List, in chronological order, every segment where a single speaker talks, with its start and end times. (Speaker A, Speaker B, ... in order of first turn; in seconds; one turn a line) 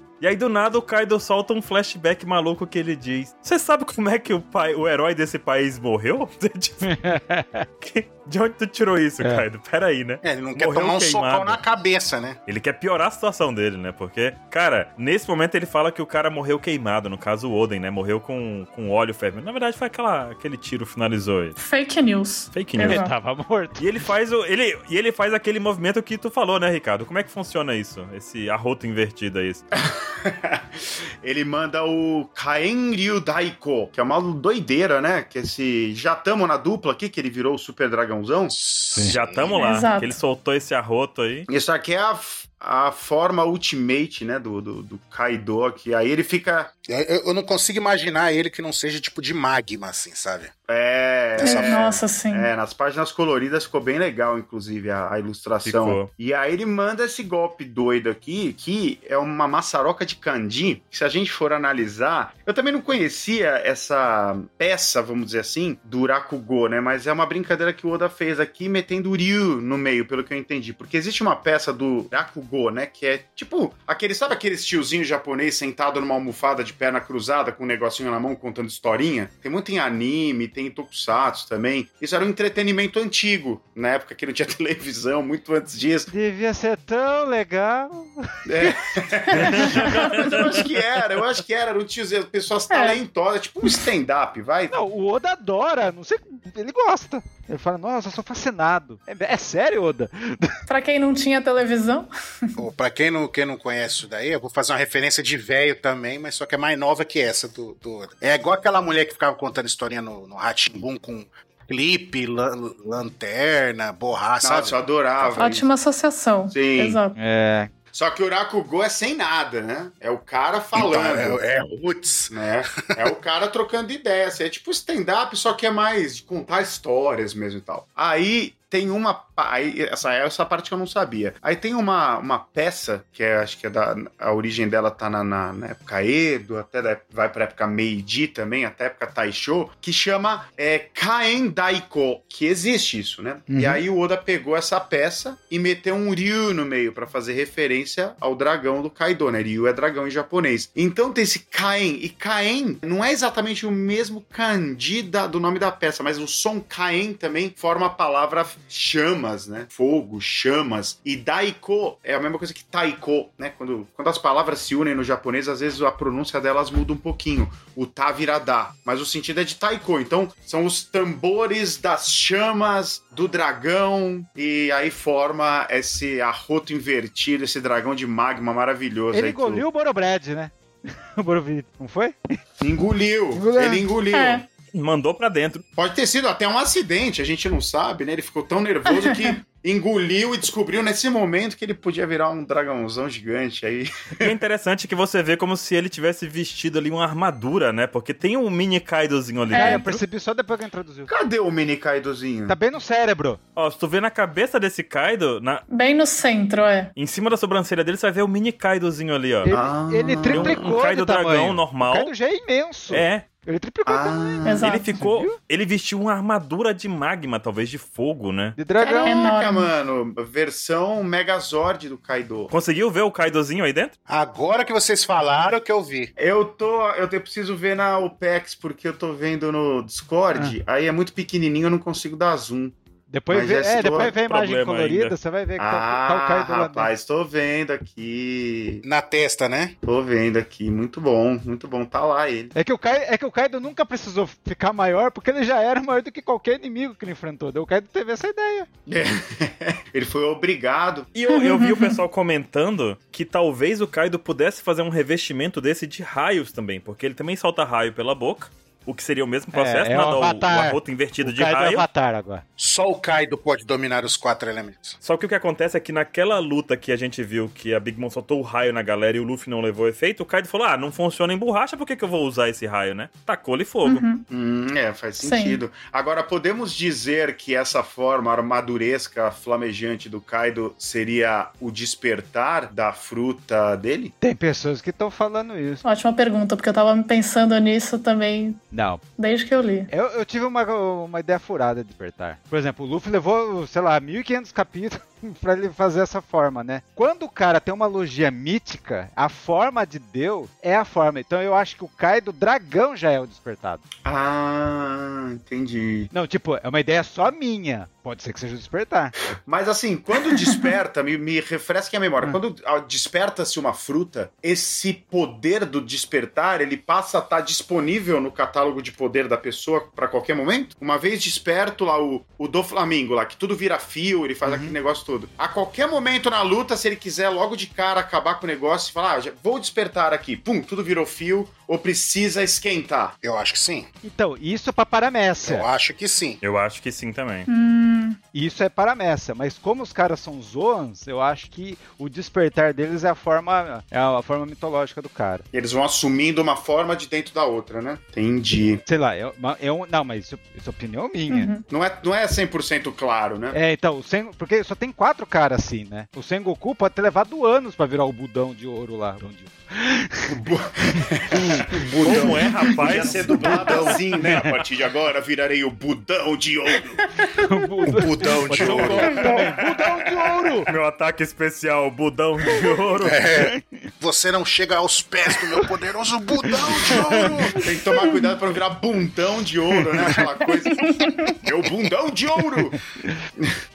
Speaker A: 0.2-7.0
Speaker B: 6.8-7.7
Speaker A: 7.8-11.6
Speaker C: 10.2-12.4
Speaker A: 12.5-21.6
Speaker D: 21.6-23.1
Speaker A: 22.5-23.0
Speaker B: 22.8-23.9
Speaker A: 23.8-29.6
Speaker E: 29.8-38.5
Speaker C: 38.5-39.6
Speaker A: 39.1-41.5
Speaker D: 39.5-40.2
Speaker E: 41.5-46.7
Speaker C: 46.9-50.5
Speaker E: 50.7-86.1
Speaker C: 51.4-51.8
Speaker D: 51.4-52.5
Speaker A: 55.6-56.1
Speaker B: 86.1-88.7
Speaker E: 88.5-94.7
Speaker D: 89.4-90.1
Speaker A: 89.5-90.6
Speaker D: 92.7-93.0
Speaker B: 94.7-100.5
Speaker D: 100.7-102.1
Speaker C: 102.5-115.3
Speaker E: 114.4-115.7
Speaker D: 115.3-117.2
Speaker E: 116.5-117.0
Speaker B: 117.2-117.7
Speaker E: 117.9-121.5
Speaker C: 120.7-122.3
Speaker E: 122.3-179.6
Speaker B: 143.5-143.8
Speaker B: 179.1-182.4
Speaker E: 182.6-184.4
Speaker B: 183.3-183.9
Speaker D: 184.1-184.4
Speaker A: 184.7-185.6
Speaker E: 185.8-194.3
Speaker D: 188.9-189.3
Speaker A: 194.2-200.0
Speaker D: 199.5-199.9
Speaker B: 199.5-201.1
Speaker E: 201.1-202.6
Speaker B: 202.5-203.4
Speaker A: 203.6-205.6
Speaker D: 205.7-206.9
Speaker A: 206.9-209.5
Speaker B: 209.4-215.4
Speaker E: 209.5-210.8
Speaker A: 210.3-212.1
Speaker A: 212.9-213.2
Speaker E: 213.8-214.7
Speaker D: 214.4-215.0
Speaker A: 214.6-218.6
Speaker B: 218.6-219.3
Speaker D: 218.8-219.7
Speaker E: 219.0-222.5
Speaker A: 222.5-223.9
Speaker C: 224.1-226.1
Speaker E: 226.2-232.8
Speaker B: 233.1-236.9
Speaker E: 233.3-234.1
Speaker A: 234.2-235.2
Speaker E: 235.6-238.8
Speaker C: 238.8-239.8
Speaker E: 239.8-242.5
Speaker B: 242.5-248.7
Speaker E: 248.9-251.1
Speaker A: 251.1-261.9
Speaker D: 251.3-252.0
Speaker B: 259.5-262.4
Speaker C: 262.6-265.0
Speaker A: 265.0-274.0
Speaker D: 273.8-274.2
Speaker E: 274.3-284.1
Speaker D: 275.2-275.6
Speaker B: 284.2-285.8
Speaker D: 285.8-288.6
Speaker B: 288.7-289.0
Speaker D: 289.2-289.9
Speaker B: 289.9-303.8
Speaker E: 304.0-306.1
Speaker B: 306.1-309.1
Speaker E: 309.4-333.1
Speaker B: 324.4-324.8
Speaker C: 333.2-333.9
Speaker B: 334.0-335.7
Speaker C: 335.4-336.4
Speaker A: 336.4-337.5
Speaker D: 337.5-338.2
Speaker B: 338.3-345.4
Speaker E: 345.5-348.8
Speaker B: 348.9-351.5
Speaker D: 351.3-351.6
Speaker E: 351.7-353.6
Speaker B: 353.5-360.3
Speaker E: 360.3-367.1
Speaker B: 361.3-361.8
Speaker A: 362.0-364.0
Speaker B: 363.0-364.4
Speaker B: 367.4-370.7
Speaker E: 367.9-369.5
Speaker C: 368.2-369.0
Speaker E: 370.1-370.4
Speaker A: 370.7-373.2
Speaker C: 373.0-377.6
Speaker B: 373.4-373.9
Speaker B: 376.4-377.6
Speaker E: 377.6-382.8
Speaker D: 380.7-381.4